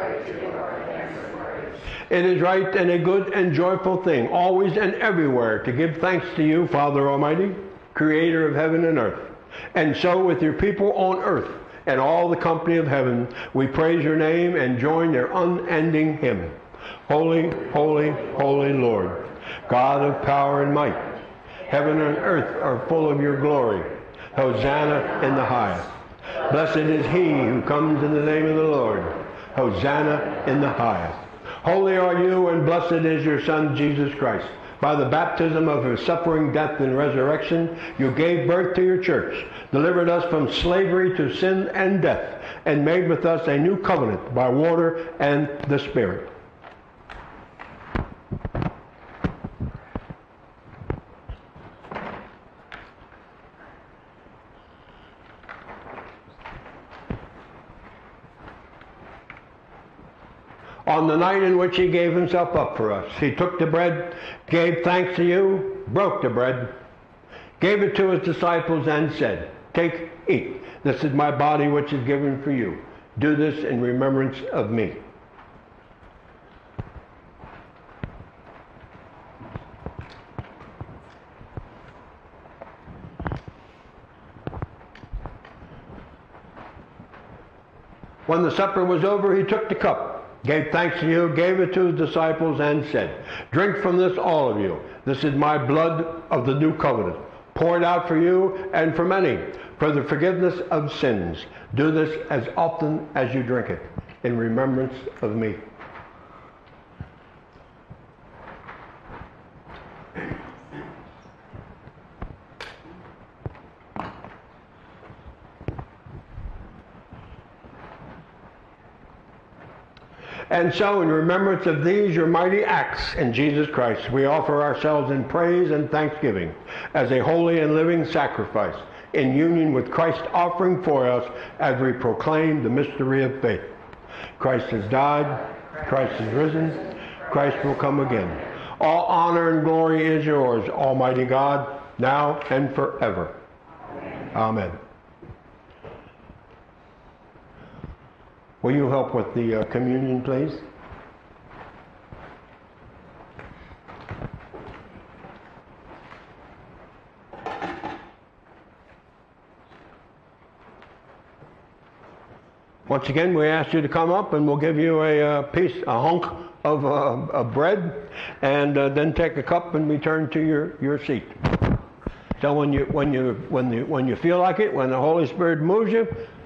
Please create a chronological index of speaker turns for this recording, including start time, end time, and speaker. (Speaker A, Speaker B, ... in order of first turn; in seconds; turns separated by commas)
Speaker A: 2.1-21.1, Speaker A: 21.7-25.9, Speaker A: 26.5-46.3, Speaker A: 60.9-66.8, Speaker A: 67.6-75.0, Speaker A: 88.3-105.6, Speaker A: 120.5-133.7, Speaker A: 134.4-143.4, Speaker A: 144.3-144.8, Speaker A: 148.6-150.6, Speaker A: 162.9-171.7, Speaker A: 172.4-176.3